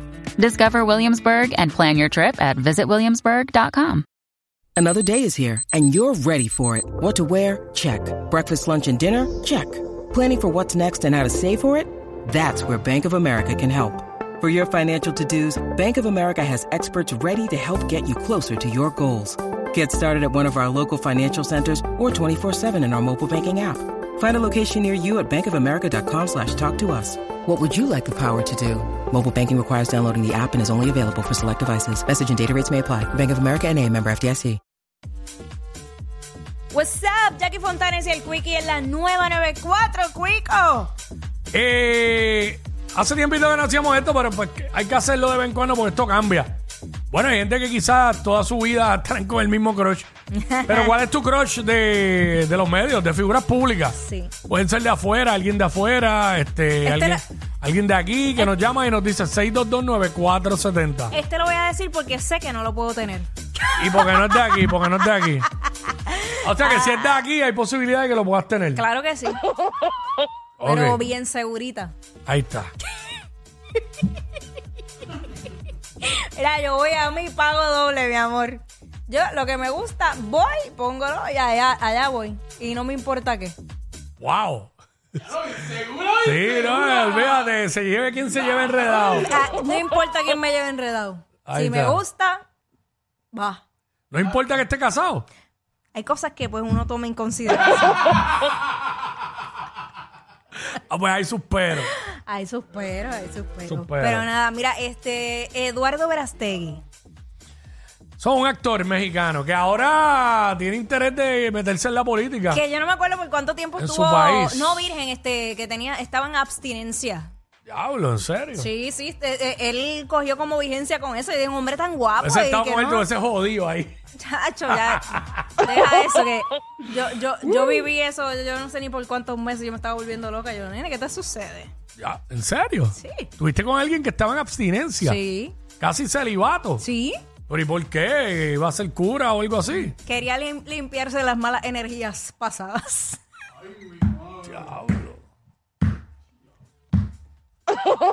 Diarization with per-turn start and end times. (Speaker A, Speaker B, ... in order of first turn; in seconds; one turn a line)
Speaker A: 0.4-4.1
Speaker B: 4.8-34.6
Speaker C: 36.7-40.9
Speaker D: 41.5-46.6
Speaker D: 47.1-50.1
Speaker C: 50.3-50.9
Speaker D: 50.7-61.1
Speaker C: 54.0-54.3
Speaker C: 56.8-57.2
Speaker C: 61.1-63.3
Speaker D: 63.8-65.5
Speaker C: 66.0-67.2
Speaker D: 66.4-68.8
Speaker C: 68.7-69.4
Speaker D: 70.6-71.0
Speaker C: 70.6-71.9
Speaker D: 72.3-72.7
Speaker C: 76.0-83.6
Speaker D: 84.2-84.8
Speaker D: 86.1-89.3
Speaker C: 89.2-92.5
Speaker D: 91.5-92.0
Speaker C: 93.3-93.6
Speaker D: 94.1-95.3
Speaker C: 95.9-98.1
Speaker D: 100.9-101.9
Speaker C: 102.0-106.8
Speaker D: 103.7-104.3
Speaker D: 108.2-112.6
Speaker C: 112.5-117.3
Speaker D: 113.8-114.9
Speaker D: 117.7-118.7
Speaker C: 118.5-123.1
Speaker D: 122.2-124.0
Speaker C: 124.2-131.7
Speaker D: 124.7-125.5
Speaker D: 132.0-135.2
Speaker C: 132.9-133.3
Speaker C: 135.0-135.6
Speaker D: 135.8-136.9
Speaker C: 136.8-137.2
Speaker D: 137.5-140.0
Speaker C: 140.0-143.2
Speaker D: 144.4-145.2